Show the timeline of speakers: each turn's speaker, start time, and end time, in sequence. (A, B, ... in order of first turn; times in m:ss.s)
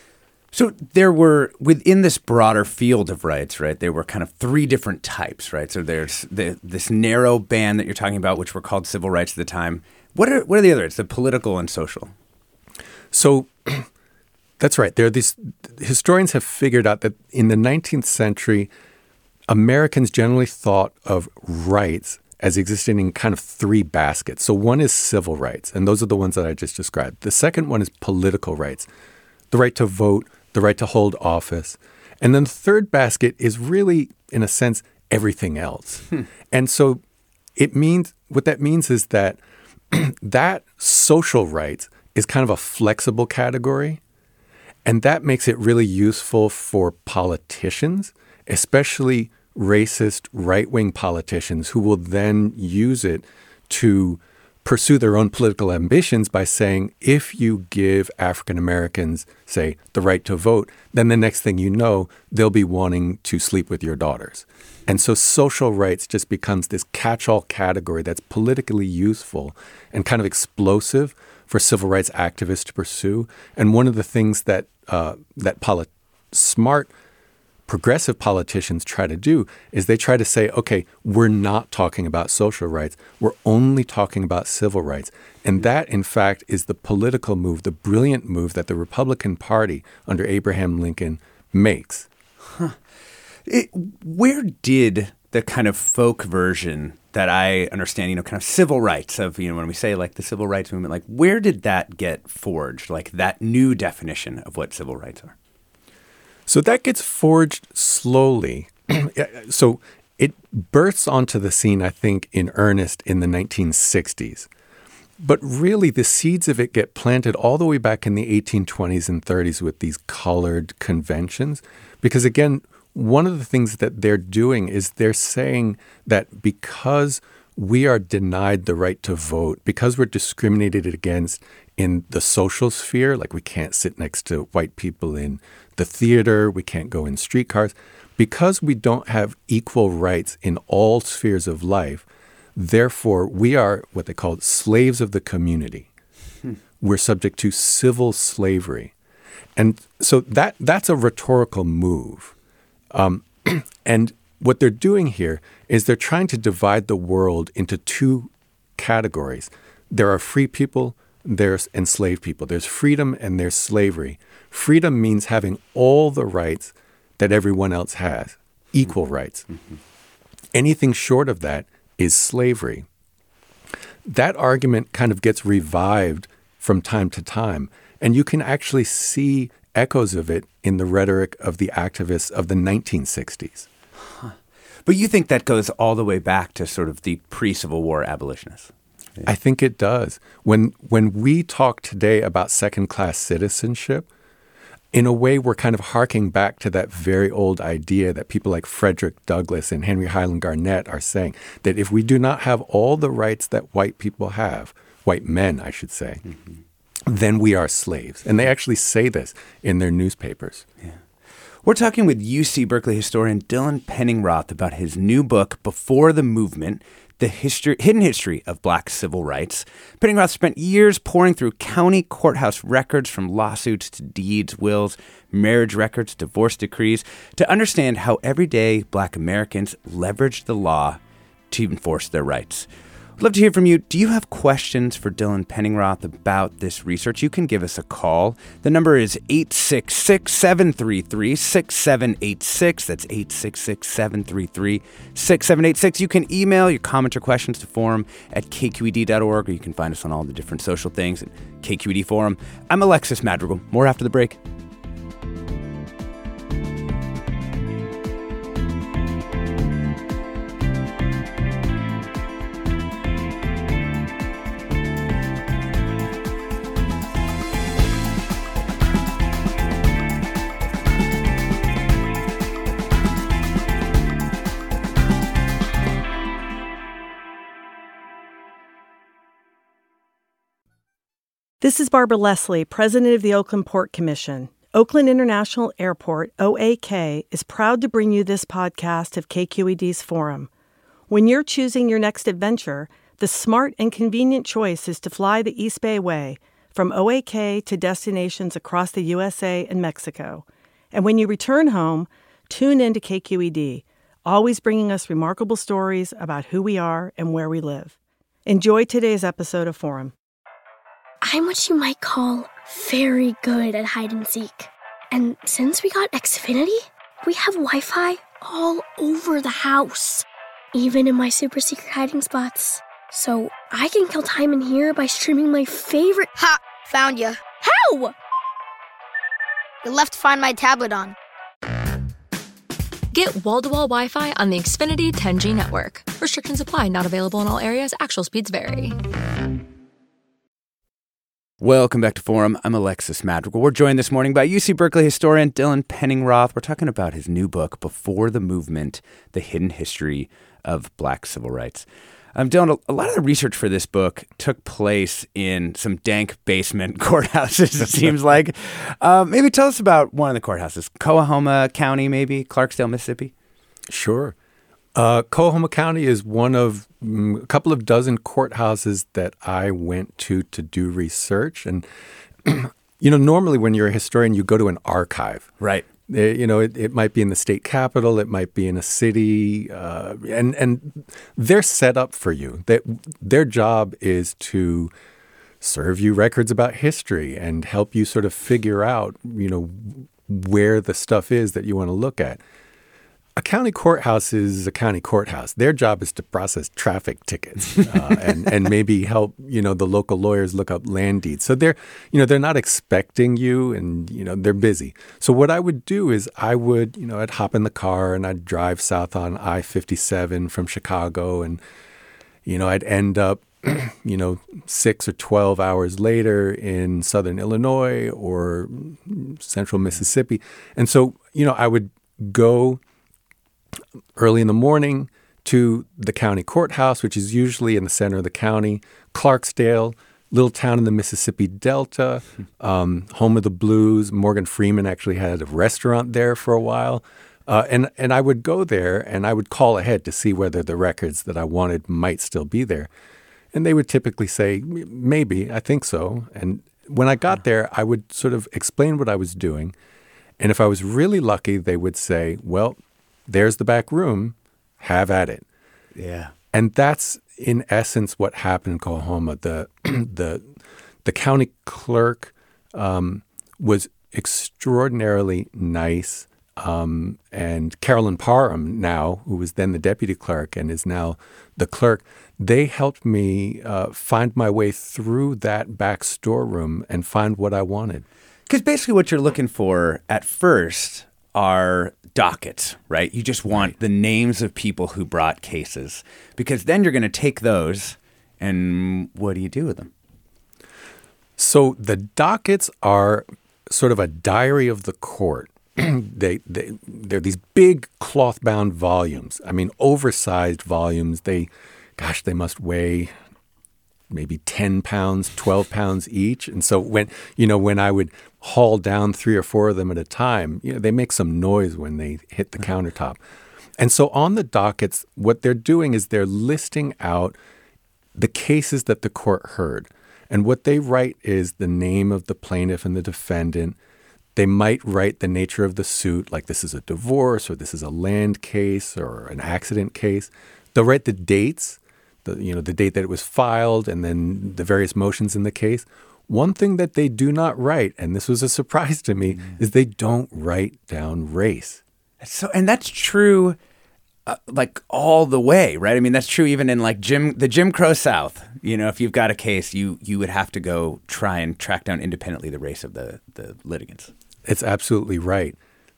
0:00.5-0:12.1 A
0:13.1-0:13.9 B
0:14.6-0:18.7 B
0:19.5-0:28.9 B
0:29.5-0:37.0 B
0:37.6-0:39.4 B
0:39.9-0:44.0 B
0:44.8-1:16.9 B
1:17.7-1:32.1 B
1:33.5-1:45.3 A
1:46.5-1:54.5 B
1:55.2-2:25.9 B
2:26.8-2:28.9 B
2:29.6-2:32.3 B
2:32.9-2:49.5 B
2:50.5-2:52.9 B
2:54.0-3:03.7 B
3:04.9-3:09.3 A
3:09.2-3:14.1 B
3:14.9-3:26.2 B
3:27.1-3:30.6 B
3:31.6-3:51.0 A
3:51.5-3:52.7 A
3:53.2-4:14.4 A
4:41.6-4:50.5 C
4:51.1-5:08.0 C
5:08.5-5:10.2 C
5:11.2-5:26.3 D
5:26.4-5:27.4 E
5:27.6-5:28.2 D
5:29.8-5:31.2 E
5:33.1-5:39.0 F
5:41.6-6:03.3 A
6:03.9-6:04.4 B
6:05.0-6:11.9 B
6:12.4-6:15.5 B
6:15.6-6:15.9 A
6:16.1-6:24.9 B
6:25.6-6:32.4 B
6:33.4-6:51.6 B
6:52.5-7:02.8 B
7:04.2-7:22.9 B
7:23.5-7:29.8 B
7:30.4-7:35.4 B
7:36.0-7:36.3 A
7:36.5-7:40.5 B
7:41.0-7:58.0 B
7:58.5-8:09.9 A
8:11.4-8:23.1 B
8:24.1-8:33.2 B
8:33.8-8:37.4 B
8:38.2-8:43.8 B
8:44.4-9:01.8 B
9:02.2-9:03.6 A
9:04.3-9:14.1 A
9:14.5-9:15.6 B